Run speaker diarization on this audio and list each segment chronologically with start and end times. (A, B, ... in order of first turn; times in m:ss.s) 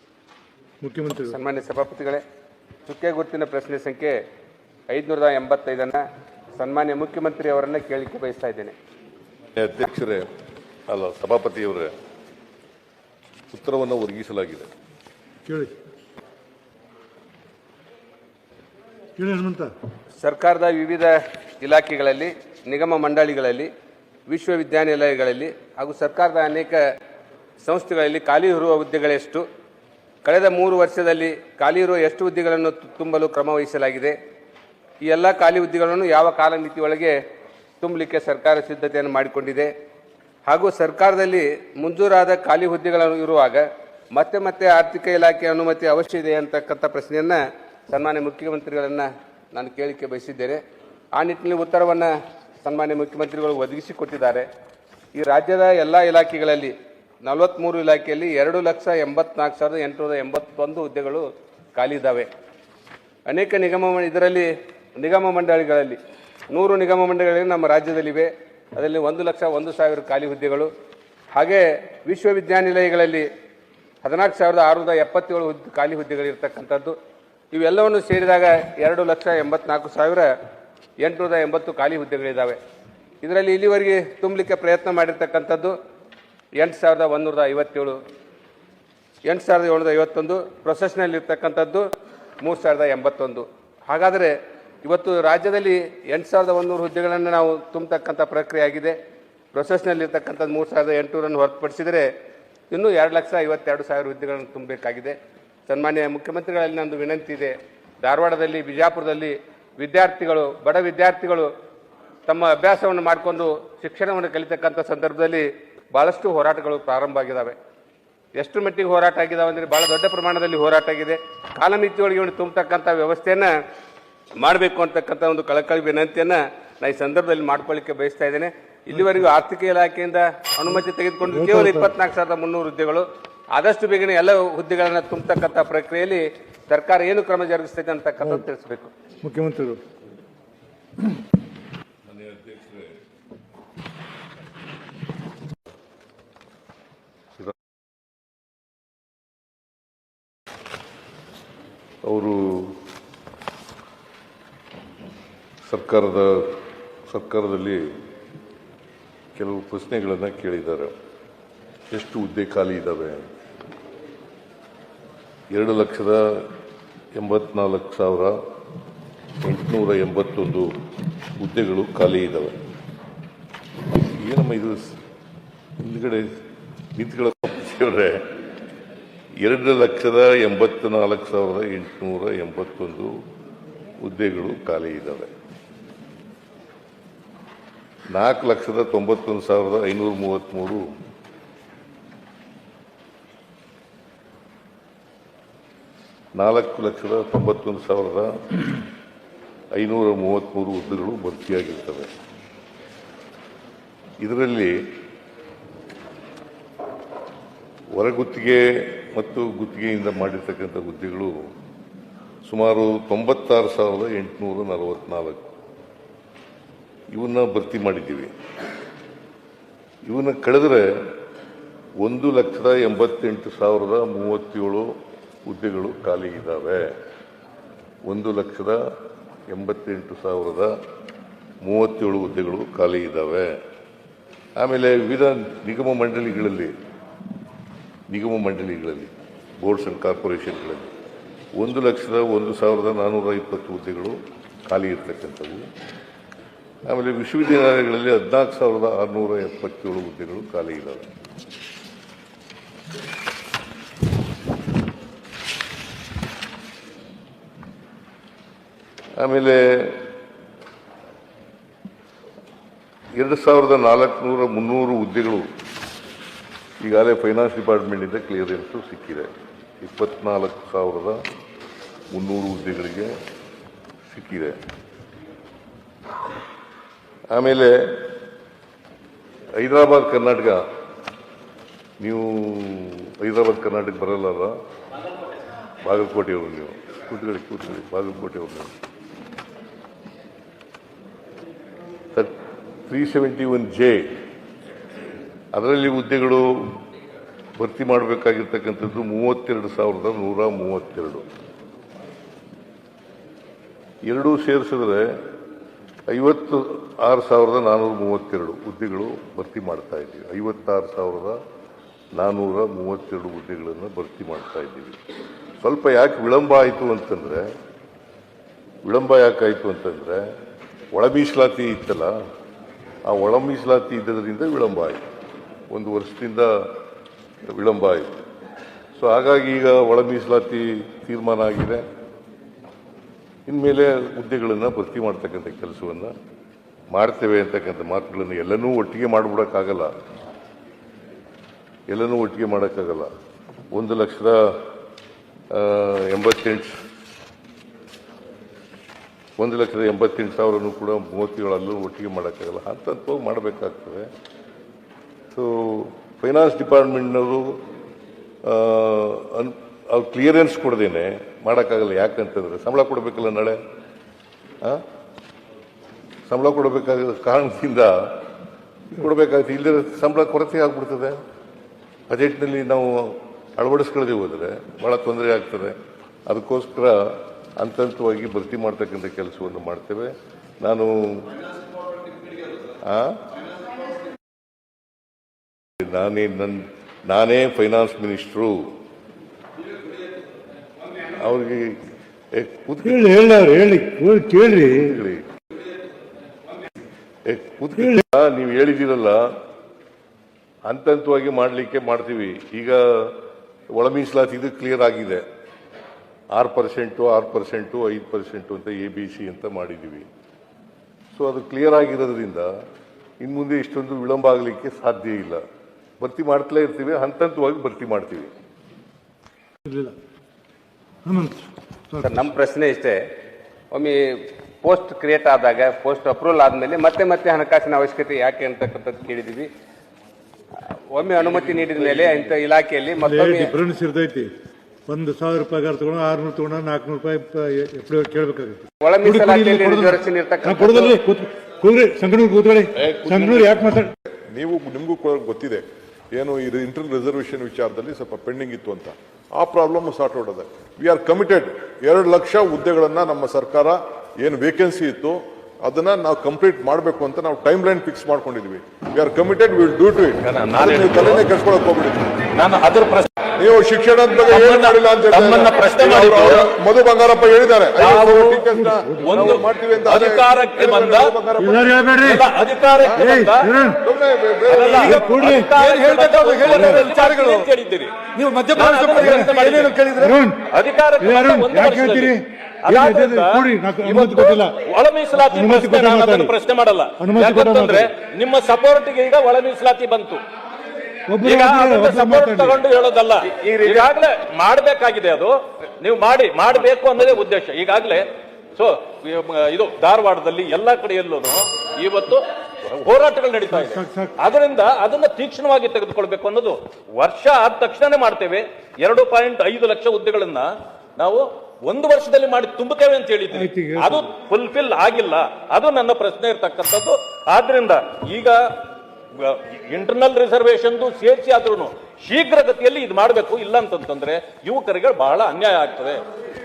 0:00.8-0:01.4 A
0:01.2-0:02.2 B
0:02.9-0:04.2 B
0:04.9-0:06.0 B
0:06.6-0:08.8 B
0:09.6-0:10.2 C
0:10.9-0:11.9 C
0:13.5-0:14.7 C
0:15.5-0:15.7 A
0:19.2-0:19.7 A
0:20.2-0:23.7 B
0:24.3-0:26.8 B
0:27.6-0:29.4 B
0:30.2-0:34.2 B
0:35.1-0:37.2 B
0:37.8-0:39.7 B
0:40.5-0:50.6 B
0:51.2-0:54.5 B
0:55.2-1:02.3 B
1:03.3-1:06.0 B
1:06.5-1:10.7 B
1:11.3-1:13.3 B
1:14.0-1:17.0 B
1:17.5-1:20.3 B
1:21.0-1:22.6 B
1:23.2-1:25.7 B
1:26.6-1:28.0 B
1:29.2-1:31.8 B
1:32.4-1:39.0 B
1:39.5-1:42.1 B
1:42.7-1:45.2 B
1:45.7-1:51.5 B
1:52.3-1:57.6 B
1:58.4-2:03.5 B
2:04.4-2:18.9 B
2:11.3-2:11.9 A
2:19.2-2:19.8 A
2:22.1-2:23.0 C
2:32.0-2:32.8 C
2:35.6-2:37.9 C
2:39.4-2:41.0 C
2:41.9-2:43.3 C
2:45.5-2:46.5 C
2:47.2-2:48.4 C
2:49.4-2:50.7 C
2:51.4-2:52.6 C
2:53.9-2:55.0 C
2:55.8-2:56.4 C
2:57.0-2:58.3 C
2:59.4-3:03.1 C
3:04.0-3:05.3 C
3:08.1-3:11.0 C
3:16.4-3:18.7 C
3:19.8-3:22.1 C
3:24.2-3:24.8 C
3:27.9-3:31.5 C
3:32.5-3:35.4 C
3:37.1-3:38.3 C
3:40.1-3:41.0 C
3:42.0-3:44.9 C
3:45.5-3:46.9 C
3:48.1-3:48.8 C
3:49.5-3:50.7 C
3:51.6-3:53.6 C
3:54.6-3:56.7 C
3:58.1-4:00.9 C
4:01.6-4:05.7 C
4:06.9-4:11.1 C
4:19.2-4:20.1 C
4:23.1-4:25.5 C
4:26.8-4:29.3 C
4:29.8-4:31.2 C
4:32.1-4:33.1 C
4:34.0-4:34.6 C
4:37.3-4:38.1 C
4:39.6-4:40.6 C
4:42.0-4:44.6 C
4:45.8-4:48.7 C
4:52.9-4:54.2 C
4:55.5-4:56.8 C
4:57.6-5:01.3 C
5:04.0-5:05.1 C
5:06.1-5:11.4 C
5:12.2-5:15.0 C
5:15.6-5:17.5 C
5:18.8-5:20.2 C
5:20.9-5:22.2 C
5:23.1-5:25.0 C
5:25.7-5:26.8 C
5:27.5-5:28.2 C
5:29.0-5:31.8 C
5:33.5-5:36.1 C
5:36.9-5:39.9 C
5:41.9-5:43.1 C
5:43.7-5:44.6 C
5:45.5-5:46.8 C
5:49.4-5:54.1 C
5:55.3-5:57.6 C
5:58.4-6:03.6 C
6:06.3-6:08.3 C
6:08.9-6:11.2 C
6:12.1-6:15.8 C
6:16.3-6:21.4 C
6:22.8-6:23.2 C
6:25.8-6:28.8 C
6:31.1-6:31.8 C
6:32.3-6:33.1 C
6:32.9-6:35.0 A
6:34.7-6:35.3 C
6:37.2-6:39.2 C
6:40.6-6:43.2 C
6:43.7-6:45.2 C
6:46.3-6:50.1 C
6:51.2-6:52.5 C
6:53.2-6:55.4 C
6:56.0-6:58.3 C
6:59.6-7:00.0 A
7:01.0-7:02.1 A
7:02.0-7:03.0 B
7:03.7-7:09.5 B
7:10.9-7:13.5 B
7:13.0-7:14.3 A
7:14.9-7:23.9 A
7:18.8-7:21.0 B
7:22.8-7:23.4 C
7:24.3-7:42.2 D
7:40.2-7:41.3 E
7:42.3-7:43.1 E
7:43.4-7:51.9 D
7:44.3-7:46.5 E
7:47.8-7:48.4 E
7:48.5-7:49.4 A
7:49.0-7:51.2 E
7:51.4-7:52.3 A
7:52.0-7:53.5 E
7:53.0-7:53.8 A
7:53.8-7:55.3 D
7:54.5-8:10.2 E
7:54.8-7:55.6 A
7:56.4-7:56.9 A
7:58.1-8:00.4 A
8:01.0-8:04.6 A
8:05.2-8:06.4 A
8:07.0-8:07.9 A
8:11.1-8:12.6 A
8:11.2-8:38.4 E
8:23.5-8:24.2 A
8:33.3-8:34.1 A
8:39.2-8:46.0 E